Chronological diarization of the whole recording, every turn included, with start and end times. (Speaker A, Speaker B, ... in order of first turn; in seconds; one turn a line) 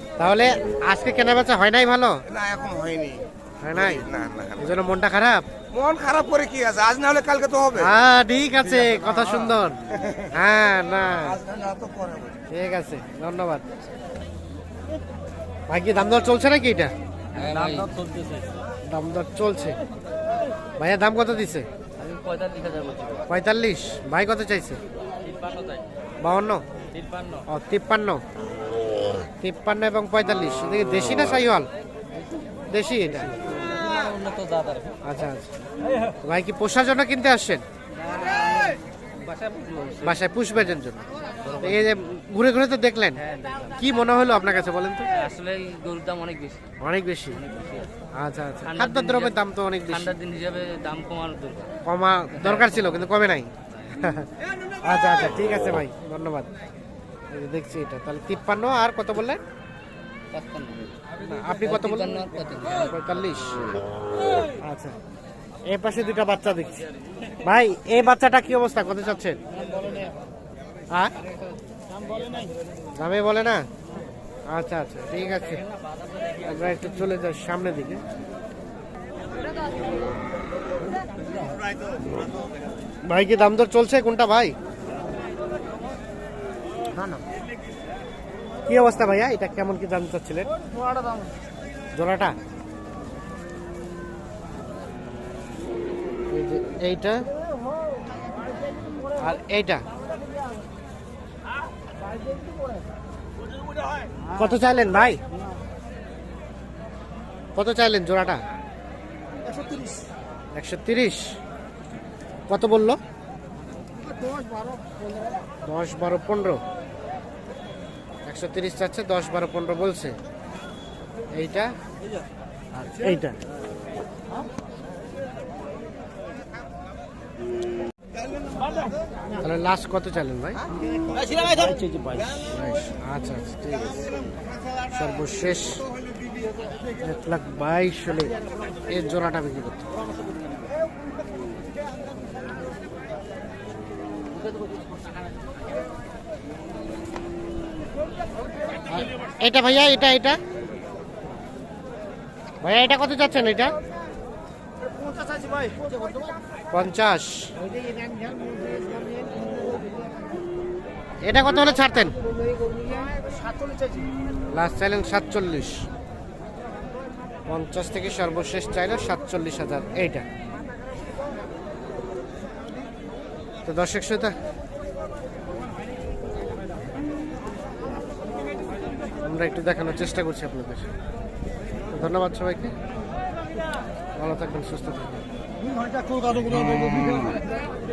Speaker A: 0.2-2.2
Speaker B: 2.3-4.8
Speaker A: 3.6-4.1
Speaker A: 4.6-5.4
Speaker B: 5.7-7.9
Speaker A: 7.8-9.8
Speaker B: 8.9-10.3
Speaker A: 10.3-11.4
Speaker B: 11.1-12.4
Speaker A: 12.5-13.7
Speaker A: 15.7-16.9
Speaker C: 17.3-18.5
Speaker A: 17.6-17.9
Speaker A: 18.9-19.8
Speaker A: 20.8-21.7
Speaker C: 22.0-23.2
Speaker A: 23.3-24.8
Speaker C: 25.2-25.9
Speaker A: 26.2-26.6
Speaker C: 26.9-27.4
Speaker A: 27.5-28.2
Speaker A: 29.4-31.7
Speaker A: 32.7-33.3
Speaker C: 33.1-35.0
Speaker A: 35.0-35.5
Speaker A: 36.2-37.6
Speaker C: 38.0-40.2
Speaker A: 40.0-41.1
Speaker C: 41.4-41.9
Speaker A: 41.6-43.2
Speaker C: 43.2-43.8
Speaker A: 43.8-45.1
Speaker C: 45.1-46.6
Speaker A: 46.8-47.4
Speaker C: 47.3-47.9
Speaker A: 48.2-50.2
Speaker C: 48.6-51.7
Speaker A: 51.9-54.3
Speaker C: 52.3-53.1
Speaker A: 54.8-56.5
Speaker A: 57.3-59.4
Speaker C: 60.3-60.8
Speaker A: 61.3-63.6
Speaker C: 61.5-63.0
Speaker A: 64.6-65.0
Speaker A: 65.7-66.8
Speaker A: 67.4-69.4
Speaker C: 69.8-70.1
Speaker A: 73.0-73.6
Speaker A: 74.5-75.6
Speaker A: 76.4-78.0
Speaker A: 83.1-84.5
Speaker A: 86.9-87.2
Speaker A: 88.7-90.5
Speaker A: 91.9-92.3
Speaker A: 96.3-97.2
Speaker A: 99.2-99.8
Speaker A: 104.3-105.2
Speaker A: 107.5-108.4
Speaker A: 110.5-111.4
Speaker A: 112.5-113.0
Speaker A: 115.6-116.6
Speaker A: 118.2-120.2
Speaker A: 121.3-121.7
Speaker A: 122.8-123.4
Speaker A: 129.4-130.6
Speaker C: 131.1-132.6
Speaker A: 132.5-134.1
Speaker A: 134.9-135.8
Speaker A: 137.0-138.3
Speaker A: 138.9-139.9
Speaker A: 148.9-150.4
Speaker A: 152.6-153.8
Speaker A: 156.7-157.5
Speaker A: 161.2-162.2
Speaker A: 164.5-165.8
Speaker A: 167.5-170.2
Speaker A: 173.7-174.3
Speaker A: 179.2-180.9
Speaker A: 181.9-182.8
Speaker A: 184.2-185.2
Speaker C: 186.2-187.1